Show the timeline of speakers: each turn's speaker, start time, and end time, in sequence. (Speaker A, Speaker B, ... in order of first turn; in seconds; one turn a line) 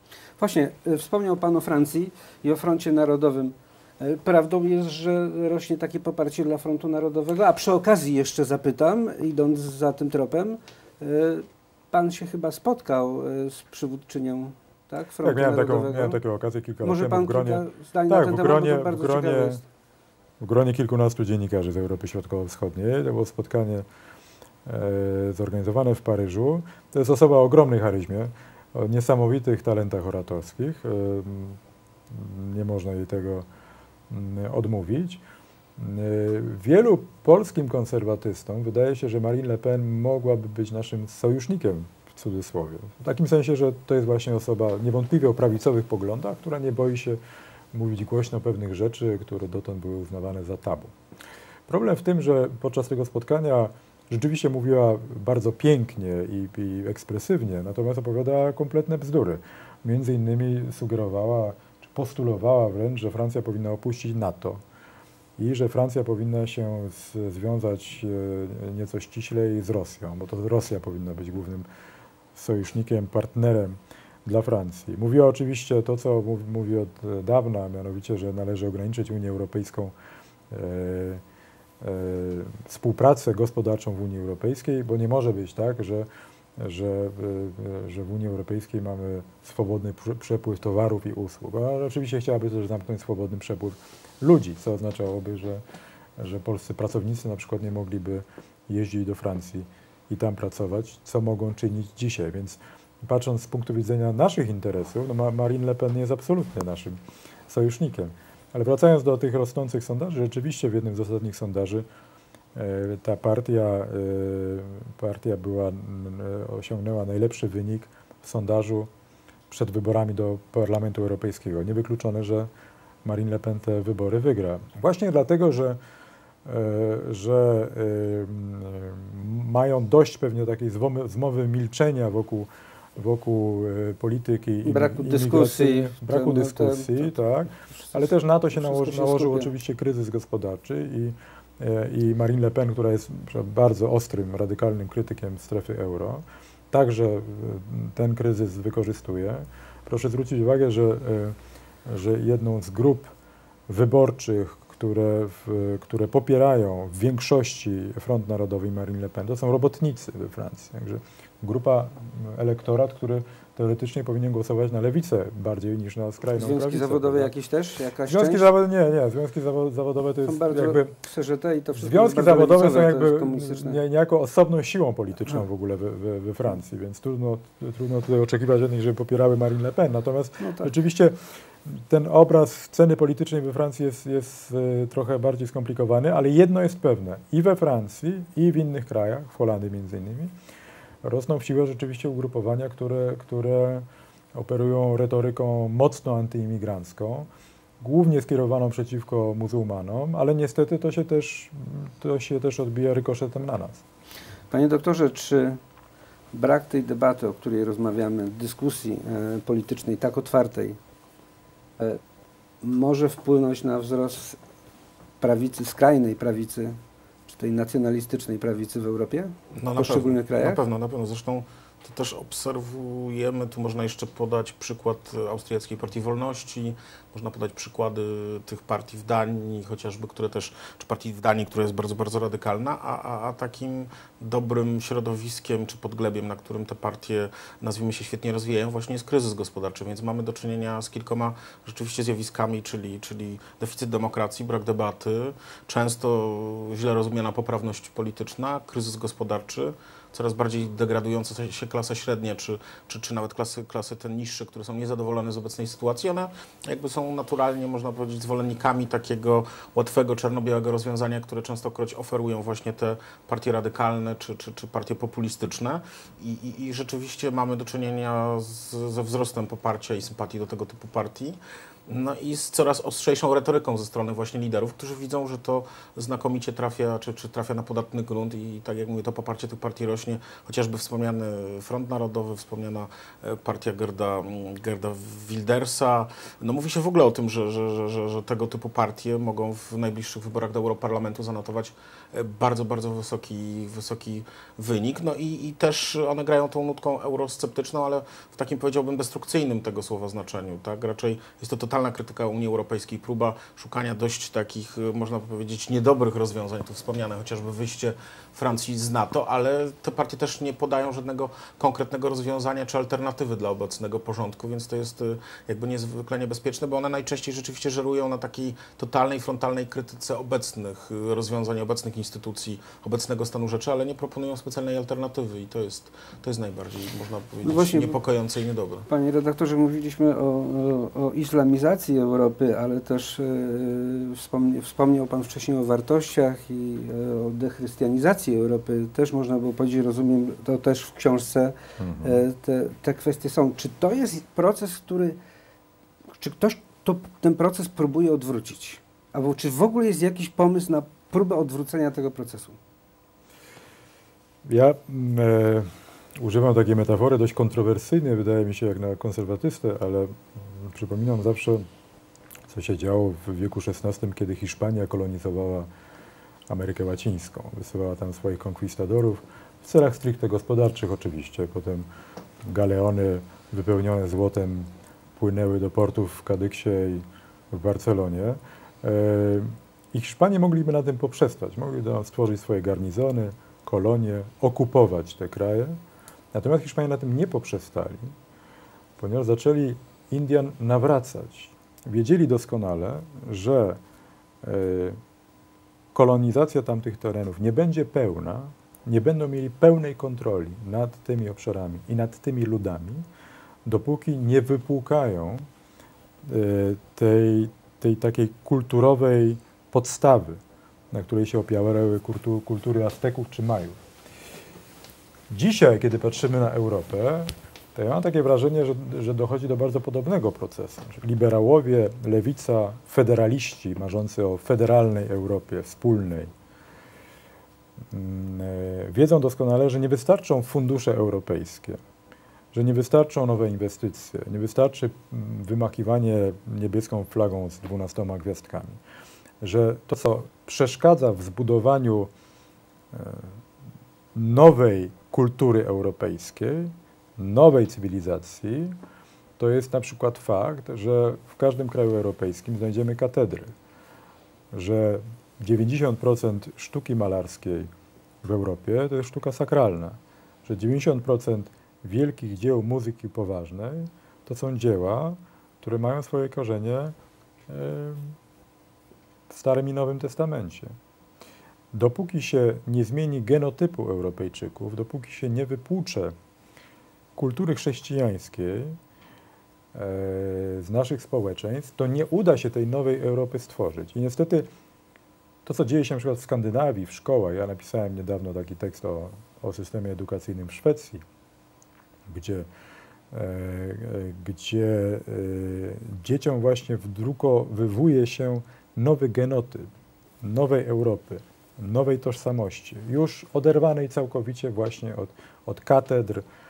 Speaker A: 0.4-16.2
Speaker B: 15.2-19.6
Speaker A: 16.8-19.6
Speaker B: 20.4-23.9
Speaker B: 24.6-31.6
Speaker B: 32.1-33.5
Speaker B: 34.1-35.2
Speaker B: 35.8-47.2
Speaker B: 47.7-50.9
Speaker B: 51.7-64.6
Speaker B: 65.4-71.7
Speaker B: 72.3-79.9
Speaker B: 80.5-81.2
Speaker B: 81.8-95.6
Speaker B: 96.2-111.8
Speaker B: 112.5-118.9
Speaker B: 119.5-122.5
Speaker B: 123.0-125.8
Speaker B: 126.4-153.1
Speaker A: 134.6-137.1
Speaker A: 137.7-139.5
Speaker B: 153.7-167.3
Speaker A: 166.3-168.5
Speaker B: 168.1-170.9
Speaker A: 170.2-173.8
Speaker B: 171.7-190.3
Speaker A: 180.4-180.7
Speaker B: 191.0-197.3
Speaker B: 197.8-203.8
Speaker A: 204.5-205.6
Speaker A: 206.3-210.8
Speaker A: 212.6-214.4
Speaker A: 215.2-220.6
Speaker C: 219.5-328.9
Speaker A: 327.4-328.0
Speaker A: 328.9-345.2
Speaker B: 341.8-342.2
Speaker A: 346.2-352.6
Speaker B: 354.4-361.6
Speaker B: 362.5-365.7
Speaker B: 366.5-371.9
Speaker B: 372.5-385.8
Speaker B: 386.3-388.1
Speaker B: 389.0-393.8
Speaker B: 394.4-395.0
Speaker B: 395.9-403.1
Speaker B: 403.6-405.4
Speaker B: 406.2-410.4
Speaker B: 410.9-413.8
Speaker B: 415.3-426.3
Speaker B: 427.9-431.8
Speaker B: 432.5-438.8
Speaker B: 439.4-442.1
Speaker B: 442.9-443.4
Speaker B: 444.1-448.7
Speaker B: 449.4-453.5
Speaker B: 454.5-457.7
Speaker B: 458.2-466.9
Speaker B: 467.5-468.2
Speaker B: 469.3-470.7
Speaker B: 471.7-476.1
Speaker B: 477.1-478.8
Speaker B: 479.7-484.5
Speaker B: 485.4-491.0
Speaker B: 492.1-492.5
Speaker B: 493.1-499.7
Speaker B: 500.2-506.2